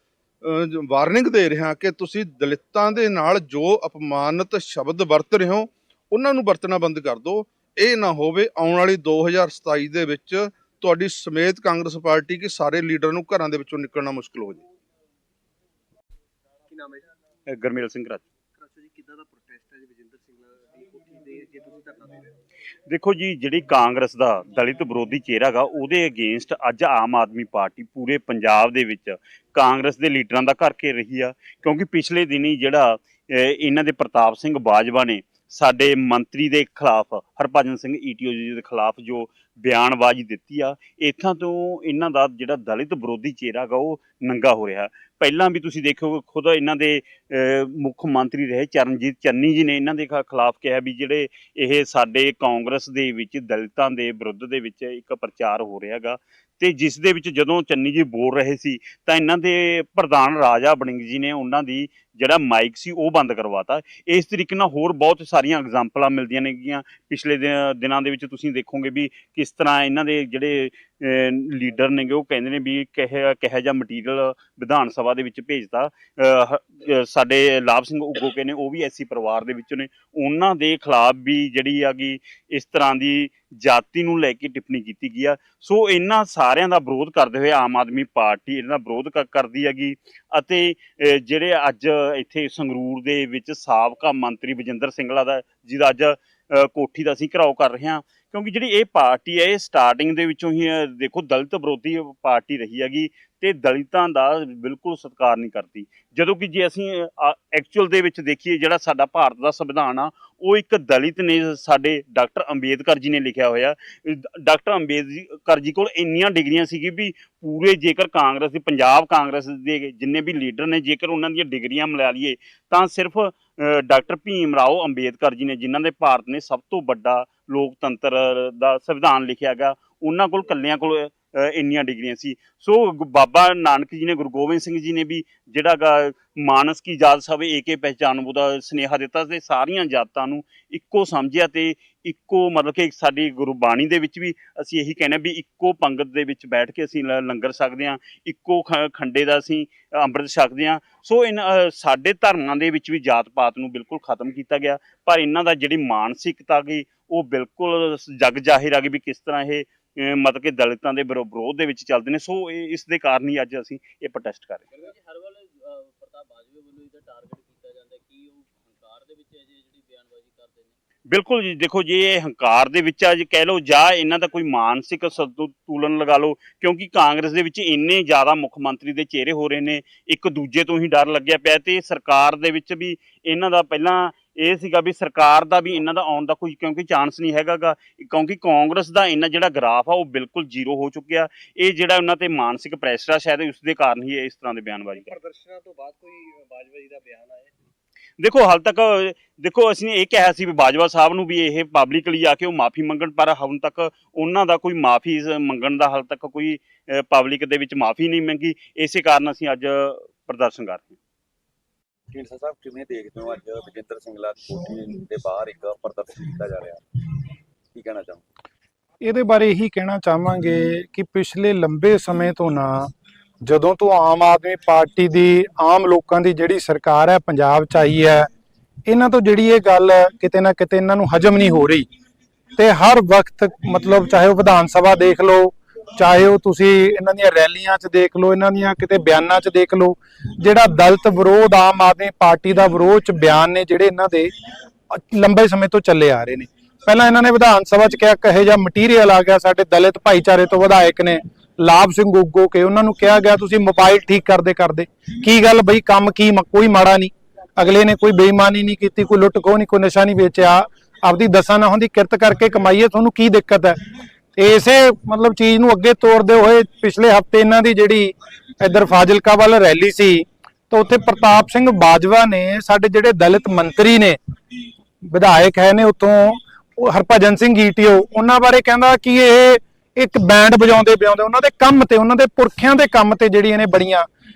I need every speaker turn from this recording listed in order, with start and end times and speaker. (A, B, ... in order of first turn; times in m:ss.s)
0:00.4-0:14.6 A
0:16.7-0:17.1 B
0:17.5-0:18.2 C
0:18.6-0:22.4 B
0:22.9-2:44.7 C
2:44.7-2:50.8 D
2:51.1-3:15.1 C
3:15.0-3:17.5 B
3:18.2-3:31.0 C
3:32.1-3:36.8 E
3:37.7-3:38.2 E
3:39.0-3:42.9 F
3:43.4-3:48.3 F
3:48.9-3:51.9 F
3:52.6-4:04.3 F
4:04.9-4:23.8 F
4:24.4-4:34.2 F
4:35.1-4:44.1 F